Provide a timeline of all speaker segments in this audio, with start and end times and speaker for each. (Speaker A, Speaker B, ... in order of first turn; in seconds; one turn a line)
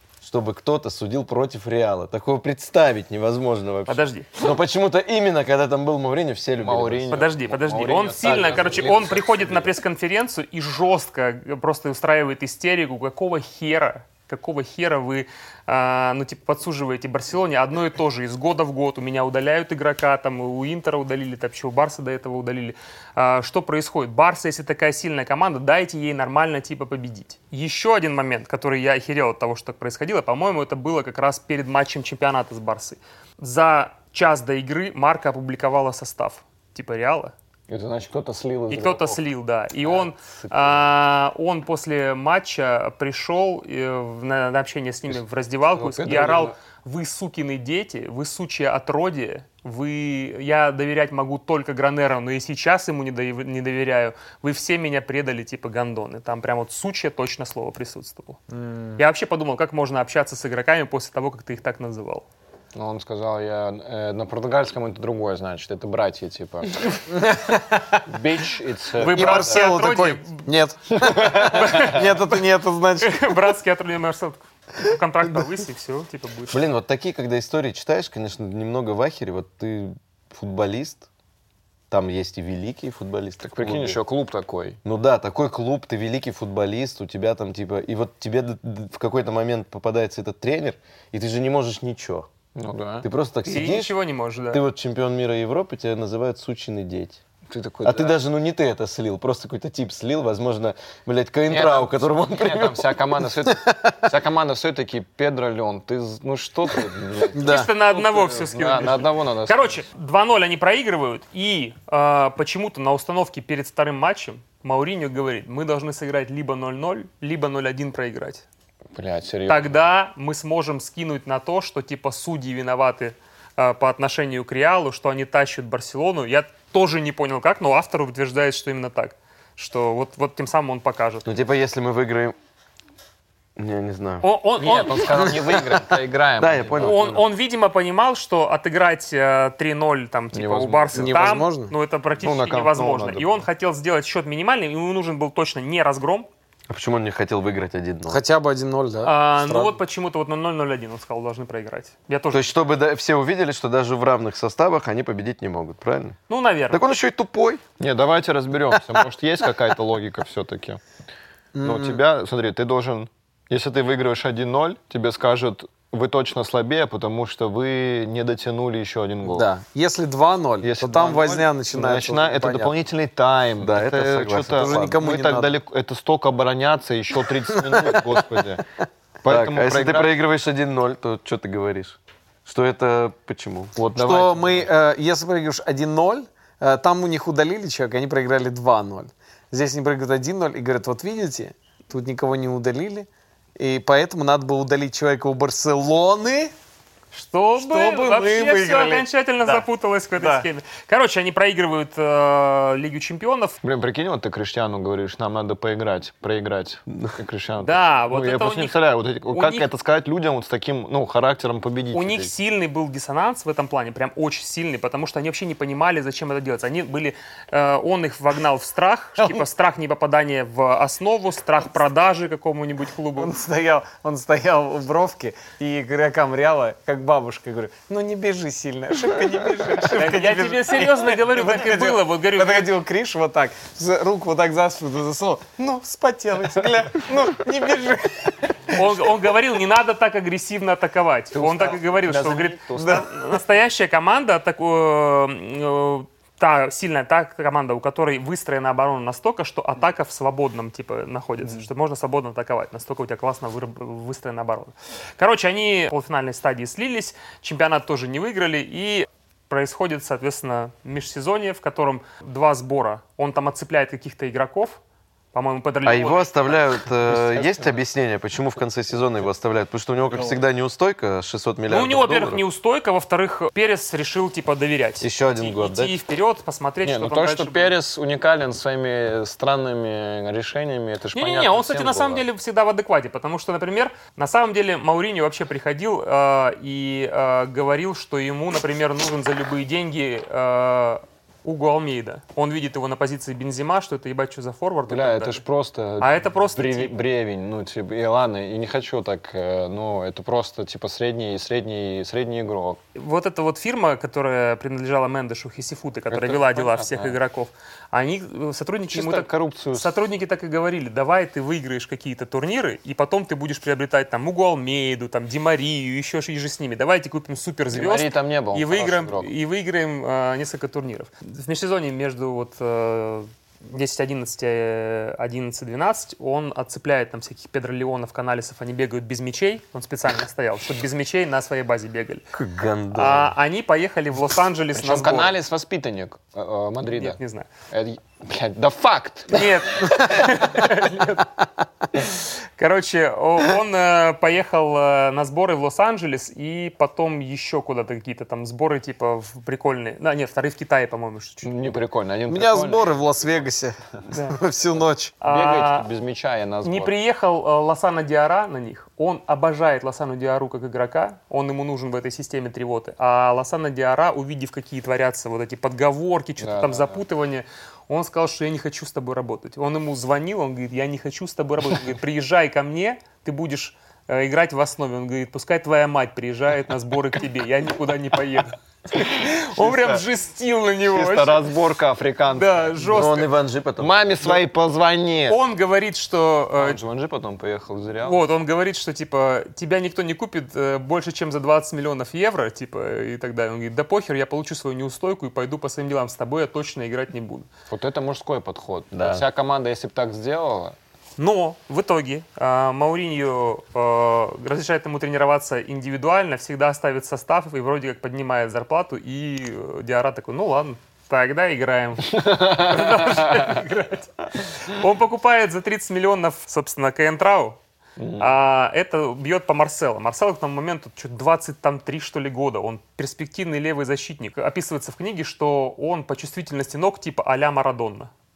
Speaker A: 0.2-7.2
Speaker B: 3.9-4.3
Speaker C: 6.6-9.7
Speaker B: 7.1-37.3
Speaker C: 37.7-39.2
Speaker B: 38.7-58.4
Speaker C: 39.8-40.9
Speaker C: 45.7-46.5
Speaker D: 58.5-59.0
Speaker B: 59.0-62.2
Speaker C: 62.7-67.0
Speaker D: 67.1-68.0
Speaker C: 68.1-69.7
Speaker D: 69.0-73.4
Speaker B: 69.0-70.4
Speaker B: 71.2-72.1
Speaker B: 73.0-76.6
Speaker A: 76.5-81.1
Speaker A: 81.9-84.0
Speaker C: 83.4-84.8
Speaker A: 84.8-92.3
Speaker C: 92.5-93.1
Speaker A: 93.0-94.0
Speaker B: 93.5-94.6
Speaker A: 94.5-97.2
Speaker C: 97.5-98.2
Speaker A: 97.8-103.0
Speaker C: 101.5-109.8
Speaker D: 103.4-104.0
Speaker D: 107.3-107.7
Speaker B: 107.4-118.4
Speaker C: 118.9-119.8
Speaker B: 119.5-131.2
Speaker A: 131.2-132.3
Speaker A: 133.6-134.3
Speaker B: 134.2-135.4
Speaker C: 134.6-137.1
Speaker A: 136.4-137.3
Speaker B: 136.8-146.3
Speaker C: 140.3-141.4
Speaker D: 140.9-141.7
Speaker C: 142.2-143.4
Speaker A: 146.7-148.2
Speaker D: 148.1-149.8
Speaker B: 149.0-152.5
Speaker A: 152.3-156.2
Speaker B: 156.3-156.8
Speaker A: 156.7-157.6
Speaker C: 157.8-160.8
Speaker D: 161.6-162.0
Speaker C: 161.6-169.5
Speaker D: 169.3-172.7
Speaker C: 170.6-178.6
Speaker A: 173.6-175.0
Speaker D: 174.6-175.5
Speaker D: 177.3-178.0
Speaker C: 179.2-180.1
Speaker A: 179.3-183.8
Speaker C: 183.8-184.7
Speaker D: 183.9-196.5
Speaker B: 197.1-203.6
Speaker D: 197.6-199.7
Speaker D: 200.2-200.5
Speaker C: 203.6-212.3
Speaker B: 207.6-208.8
Speaker B: 209.3-209.7
Speaker B: 211.9-223.3
Speaker D: 223.2-238.9
Speaker B: 229.9-232.7
Speaker B: 238.7-264.8
Speaker C: 241.3-243.1
Speaker D: 242.8-243.1
Speaker B: 265.3-266.7
Speaker A: 265.8-272.4
Speaker C: 267.1-267.8
Speaker B: 271.7-277.8
Speaker A: 275.0-276.0
Speaker C: 276.8-282.2
Speaker B: 281.1-295.4
Speaker C: 294.9-302.8
Speaker B: 296.0-296.9
Speaker B: 302.9-332.2
Speaker C: 306.1-307.2
Speaker C: 308.9-309.9
Speaker C: 317.7-319.3
Speaker A: 332.3-333.3
Speaker B: 332.9-335.4
Speaker C: 334.8-337.2
Speaker B: 337.0-337.5
Speaker C: 337.7-339.5
Speaker B: 339.3-341.3
Speaker B: 341.9-351.5
Speaker C: 351.4-353.4
Speaker D: 352.3-355.1
Speaker B: 354.1-354.4
Speaker B: 355.2-355.9
Speaker C: 355.3-356.9
Speaker B: 356.6-381.4
Speaker C: 366.4-367.0
Speaker C: 379.0-380.0
Speaker C: 380.9-383.1
Speaker B: 382.3-383.3
Speaker A: 382.8-384.4
Speaker C: 383.8-385.4
Speaker B: 385.3-386.8
Speaker C: 386.6-388.2
Speaker B: 388.0-397.5
Speaker C: 397.7-400.8
Speaker A: 398.9-399.2
Speaker B: 401.2-417.6
Speaker C: 412.1-413.6
Speaker C: 418.0-418.3
Speaker B: 418.2-428.1